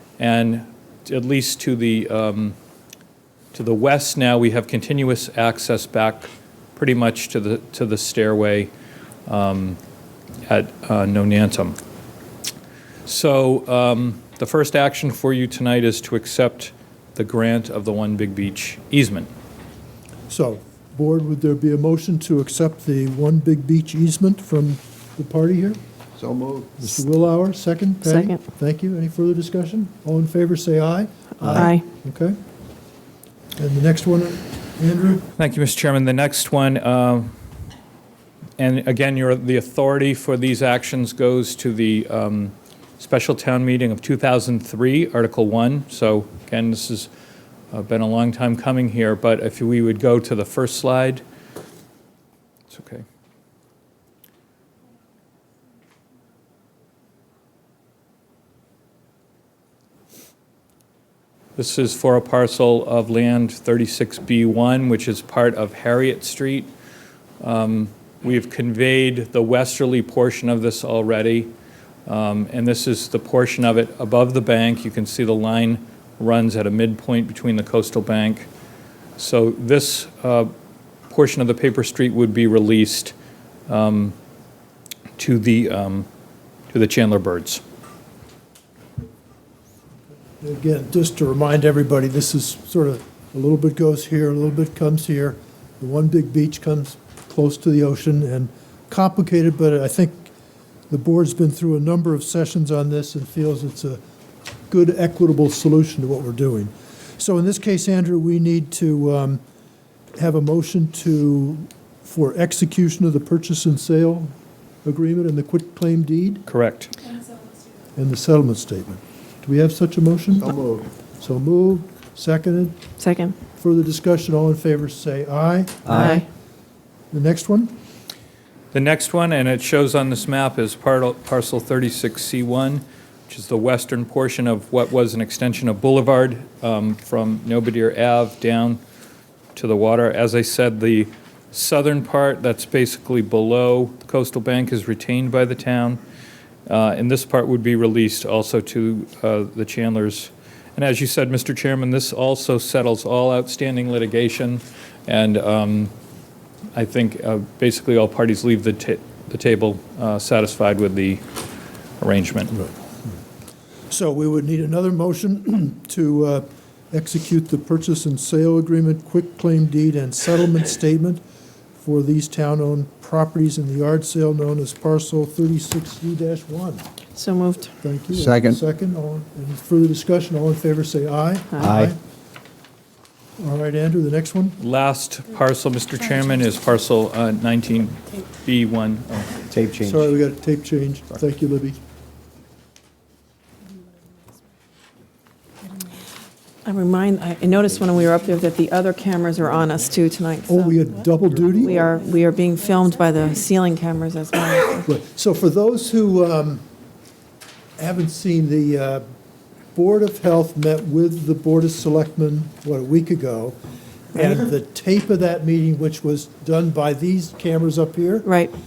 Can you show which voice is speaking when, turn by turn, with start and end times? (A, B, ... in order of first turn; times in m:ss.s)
0:00.2-0:02.6 A
0:03.5-0:08.7 A
0:09.3-0:09.8 A
0:10.5-0:11.8 A
0:13.1-0:19.3 A
0:20.3-0:25.8 B
0:26.2-0:26.8 C
0:26.8-0:32.4 B
0:28.0-0:28.4 D
0:31.4-0:31.8 D
0:33.6-0:35.2 B
0:35.4-0:37.3 A
0:38.6-0:47.1 A
0:47.7-0:51.2 A
0:52.7-0:53.0 A
1:01.6-1:06.7 A
1:07.4-1:11.5 A
1:12.1-1:18.5 A
1:19.2-1:20.5 A
1:21.1-1:23.1 A
1:23.7-1:24.2 A
1:25.2-1:26.1 A
1:26.7-1:27.6 A
1:30.4-1:40.3 B
1:40.9-1:44.0 B
1:44.7-1:49.4 B
1:50.2-1:54.3 B
1:54.8-1:56.4 B
1:56.5-1:56.9 A
1:58.0-2:00.6 B
2:00.5-2:00.9 C
2:01.2-2:02.8 B
2:03.0-2:03.4 D
2:03.6-2:06.2 B
2:05.9-2:06.2 D
2:07.1-2:07.7 B
2:08.7-2:18.8 A
2:19.6-2:26.0 A
2:26.7-2:35.9 A
2:36.7-2:41.2 A
2:42.0-2:42.6 A
2:42.5-2:43.1 B
2:43.9-2:51.2 B
2:51.8-2:56.8 B
2:57.2-2:57.7 D
2:57.8-3:02.0 B
2:58.1-2:58.6 C
3:01.6-3:01.9 C
3:03.4-3:04.6 B
3:04.6-3:09.4 A
3:09.5-3:10.1 C
3:09.8-3:11.8 B
3:16.6-3:20.8 D
3:20.5-3:21.8 B
3:21.5-3:24.9 D
3:24.9-3:26.6 B
3:27.8-3:29.0 B
3:29.7-3:33.6 B
3:34.1-3:38.3 B
3:38.2-3:38.6 D